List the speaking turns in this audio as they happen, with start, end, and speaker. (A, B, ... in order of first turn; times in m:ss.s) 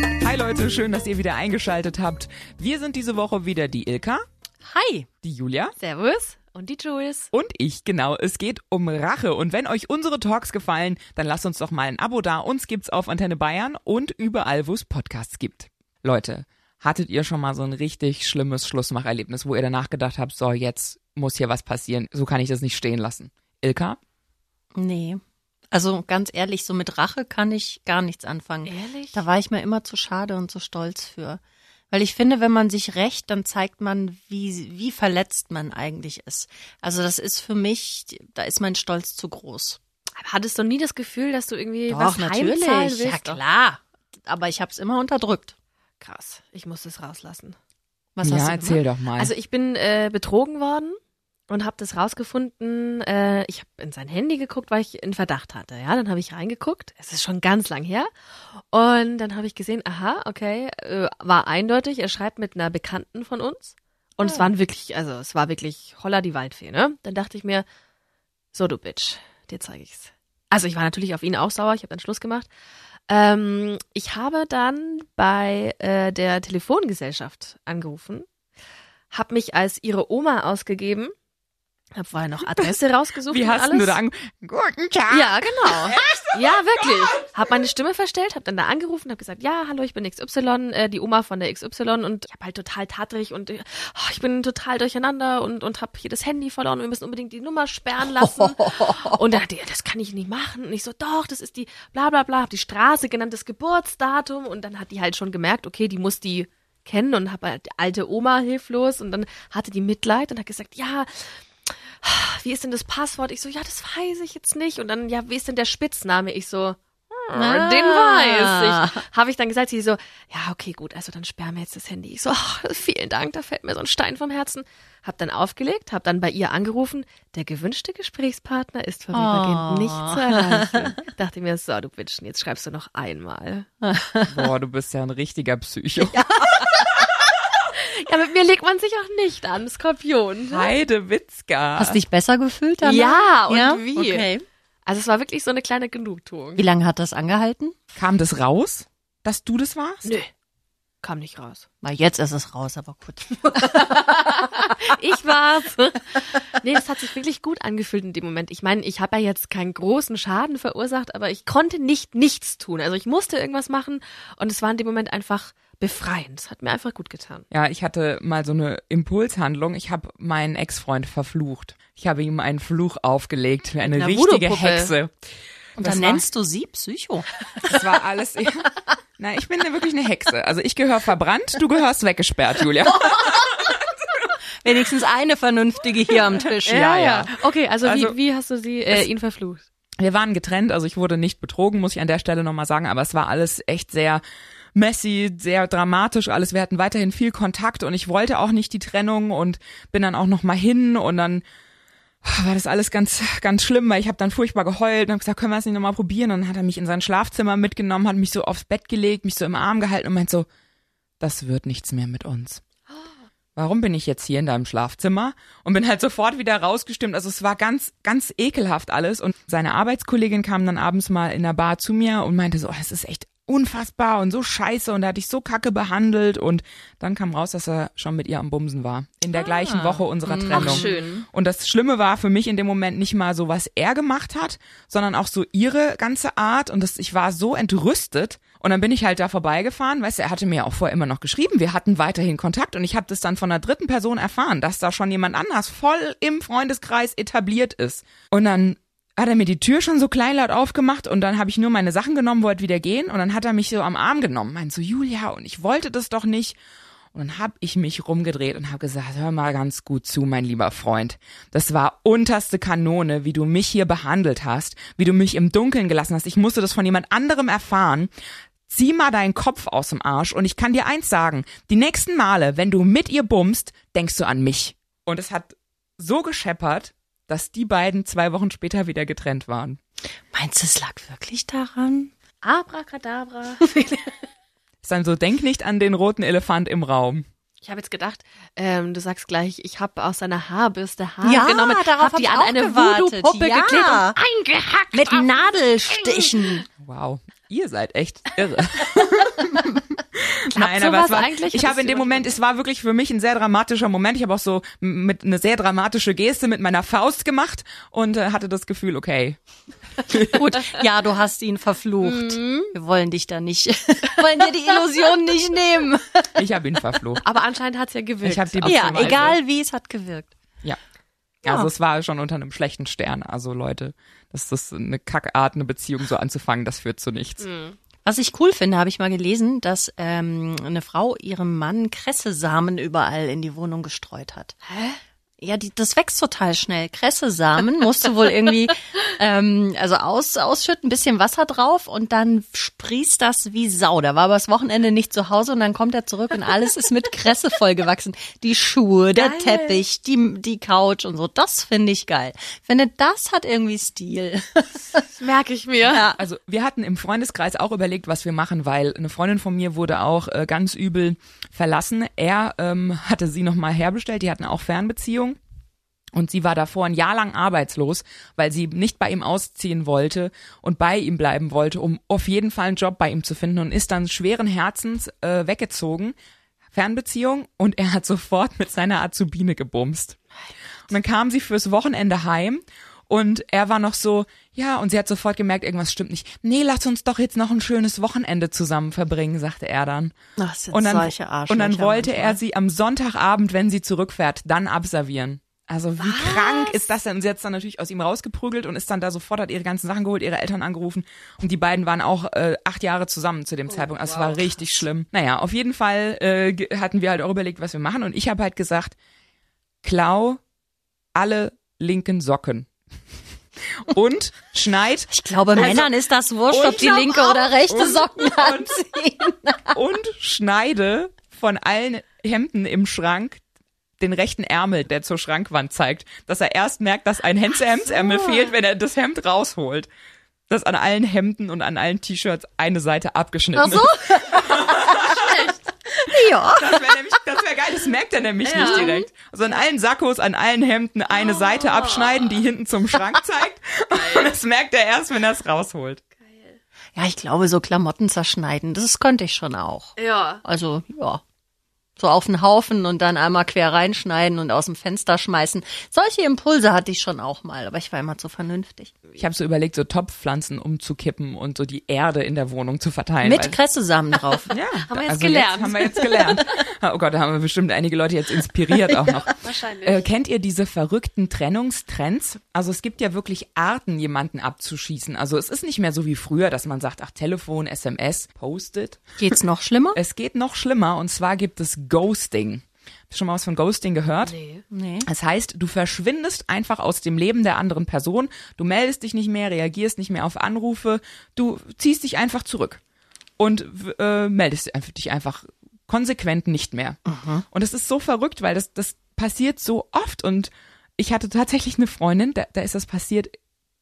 0:00.2-0:04.2 A
0:04.6-0:05.1 B
0:05.2-0:05.7 A
0:05.8-0:07.3 C
0:07.3-0:24.0 A
0:24.7-0:25.2 B
0:25.7-0:31.4 B
0:28.6-0:29.2 C
0:31.9-0:39.8 B
0:40.2-0:43.4 C
0:41.9-0:45.5 B
0:46.0-0:47.6 C
0:48.2-0:48.8 B
0:48.2-0:49.3 A
0:49.2-0:51.0 C
0:51.5-0:58.1 C
0:58.7-1:07.6 C
1:04.2-1:04.5 B
1:08.5-1:12.5 C
1:13.1-1:18.2 C
1:19.1-1:21.1 C
1:21.9-1:24.0 C
1:23.3-1:26.4 A
1:25.1-1:51.3 C
1:38.0-1:39.4 B
1:52.0-2:13.7 C
1:57.3-1:59.0 B
2:09.1-2:10.9 B
2:13.8-2:14.5 B
2:14.2-2:16.2 A
2:16.1-2:16.8 B
2:17.7-2:20.8 C
2:20.5-2:22.0 A
2:21.8-2:24.4 B
2:22.8-2:24.3 C
2:24.8-2:26.6 C
2:26.6-2:27.7 B
2:28.0-2:30.1 A
2:30.0-2:30.3 C
2:31.0-2:31.6 C
2:31.8-2:34.6 B
2:33.9-2:47.4 C
2:47.5-2:55.1 A
2:53.8-2:54.9 C
2:55.8-2:56.2 A
2:55.8-2:57.8 B
2:57.6-3:03.8 A
3:04.6-3:07.0 B
3:06.6-3:09.6 C
3:06.7-3:07.3 A
3:07.8-3:08.2 A
3:10.0-3:14.2 A
3:14.7-3:21.4 A
3:22.2-3:30.5 A
3:31.2-3:32.6 A
3:33.5-4:16.6 A
3:49.3-3:51.1 B
3:50.5-3:51.2 C
4:17.1-4:28.1 A
4:28.7-4:39.8 A
4:40.3-4:42.1 B
4:42.4-4:44.1 C
4:44.8-4:47.2 A
4:47.6-4:55.3 C
4:51.2-4:54.2 B
4:54.9-4:56.6 B
4:55.9-4:56.3 C
4:56.8-5:09.4 A
5:00.5-5:02.4 C
5:10.0-5:10.6 A
5:10.4-5:16.4 B
5:12.0-5:12.7 C
5:16.3-5:17.2 A
5:17.2-5:19.4 C
5:18.2-5:19.4 A
5:18.6-5:20.3 B
5:21.4-5:27.4 A
5:27.4-5:27.8 C
5:28.0-5:34.6 B
5:34.7-5:35.0 C
5:35.4-5:55.0 B
5:49.1-5:49.8 C
5:55.0-5:56.1 C
5:55.9-5:56.2 B
5:56.1-6:05.4 A
6:06.1-6:16.2 A
6:16.7-6:20.2 A
6:20.9-6:30.1 A
6:30.4-6:32.4 B
6:30.7-6:49.0 A
6:36.0-6:36.8 C
6:43.7-6:44.5 C
6:49.8-6:50.4 A
6:51.1-6:52.7 A
6:53.8-6:55.9 A
6:55.1-6:59.8 B
6:56.5-6:58.8 A
6:59.7-7:03.4 A
7:04.0-7:09.9 A
7:07.8-7:08.5 B
7:10.5-7:15.2 A
7:13.5-7:17.0 B
7:16.1-7:26.0 A
7:18.4-7:18.9 C
7:18.5-7:19.0 B
7:21.1-7:22.4 C
7:23.9-7:24.3 C
7:26.2-7:26.6 C
7:26.9-7:31.2 B
7:30.0-7:30.4 C
7:32.0-7:38.9 B
7:39.2-7:43.6 A
7:43.2-7:44.5 B
7:44.5-7:59.0 A
7:44.8-7:46.5 C
7:49.2-7:50.1 C
7:59.2-8:00.0 B
7:59.9-8:04.3 A
8:04.2-8:04.6 C
8:04.7-8:05.1 B
8:05.0-8:12.8 A
8:13.4-8:17.0 A
8:17.0-8:17.4 B
8:17.5-8:23.3 A